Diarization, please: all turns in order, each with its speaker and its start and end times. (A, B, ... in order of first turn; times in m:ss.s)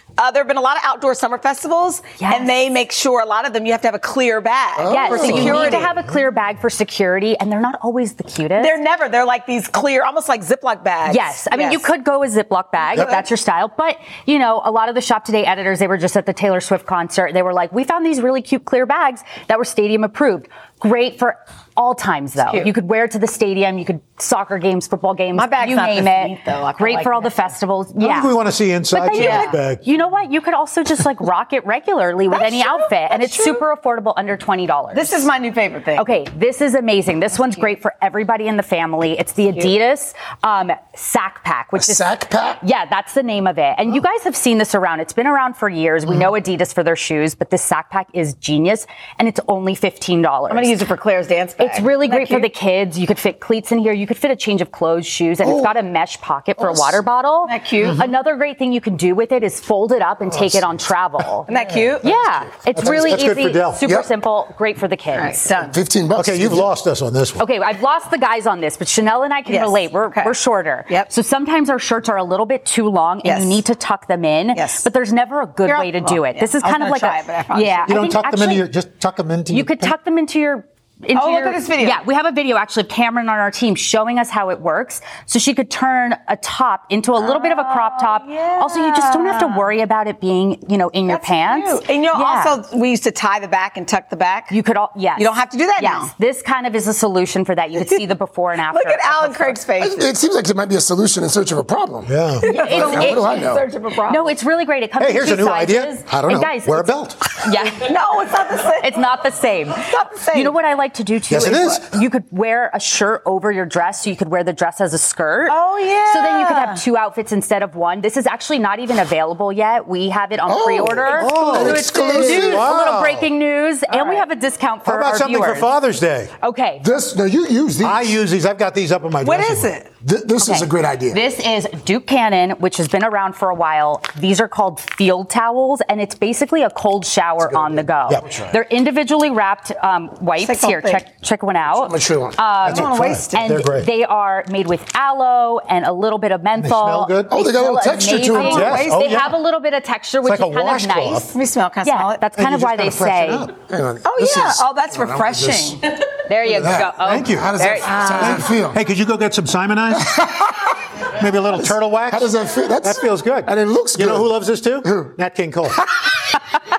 0:00.2-0:05.9 A
0:02.2-0:02.5 B
0:04.8-0:05.9 C
0:04.8-0:08.8 B
0:05.3-0:05.9 D
0:08.6-0:11.8 A
0:11.0-0:28.4 B
0:22.5-0:22.7 A
0:25.3-0:27.5 A
0:28.0-0:29.8 D
0:28.9-0:35.3 B
0:29.1-0:29.5 A
0:32.3-0:33.6 A
0:34.9-0:36.1 A
0:36.0-0:42.0 B
0:41.7-0:42.6 C
0:42.6-0:50.8 B
0:50.5-0:52.5 A
0:51.6-1:05.5 B
0:55.4-0:55.7 C
0:56.6-0:56.9 C
0:57.4-0:58.0 A
0:57.8-0:58.1 D
1:01.5-1:02.1 A
1:02.7-1:03.8 D
1:05.1-1:05.8 A
1:05.7-1:06.7 C
1:06.2-1:07.5 D
1:07.4-1:18.7 B
1:09.5-1:11.1 A
1:13.2-1:13.6 A
1:14.5-1:14.8 A
1:15.6-1:18.0 A
1:17.9-1:19.9 D
1:19.5-1:32.6 B
1:21.1-1:22.0 A
1:27.2-1:29.7 A
1:31.1-1:34.5 A
1:34.5-1:39.6 B
1:35.2-1:36.1 A
1:37.8-1:38.1 A
1:38.7-1:40.1 A
1:39.8-1:43.7 C
1:42.1-1:43.0 D
1:42.4-1:44.3 A
1:42.5-1:43.3 B
1:44.1-1:47.9 B
1:45.0-1:47.2 D
1:47.8-1:49.2 A
1:48.8-2:05.7 B
1:49.8-1:50.6 A
1:51.3-1:52.0 D
1:55.5-1:56.8 A
2:00.4-2:02.7 C
2:01.1-2:03.3 D
2:03.9-2:04.2 A
2:04.8-2:06.3 D
2:06.4-2:06.8 B
2:06.8-2:08.2 C
2:07.8-2:09.7 D
2:09.2-2:09.9 A
2:10.0-2:11.2 C
2:10.4-2:33.5 B
2:17.4-2:18.5 C
2:20.4-2:21.0 A
2:21.7-2:22.7 C
2:22.6-2:23.9 D
2:26.6-2:27.3 D
2:27.3-2:28.9 C
2:28.4-2:29.1 A
2:28.4-2:29.4 D
2:30.2-2:31.3 D
2:31.3-2:32.2 A
2:32.3-2:33.5 D
2:33.7-2:35.8 C
2:34.0-2:36.0 A
2:34.2-2:34.5 D
2:36.3-2:38.2 B
2:36.5-2:38.8 C
2:36.5-2:40.4 D
2:37.8-2:38.4 A
2:41.2-2:45.8 D
2:42.1-2:44.3 C
2:44.8-2:45.1 C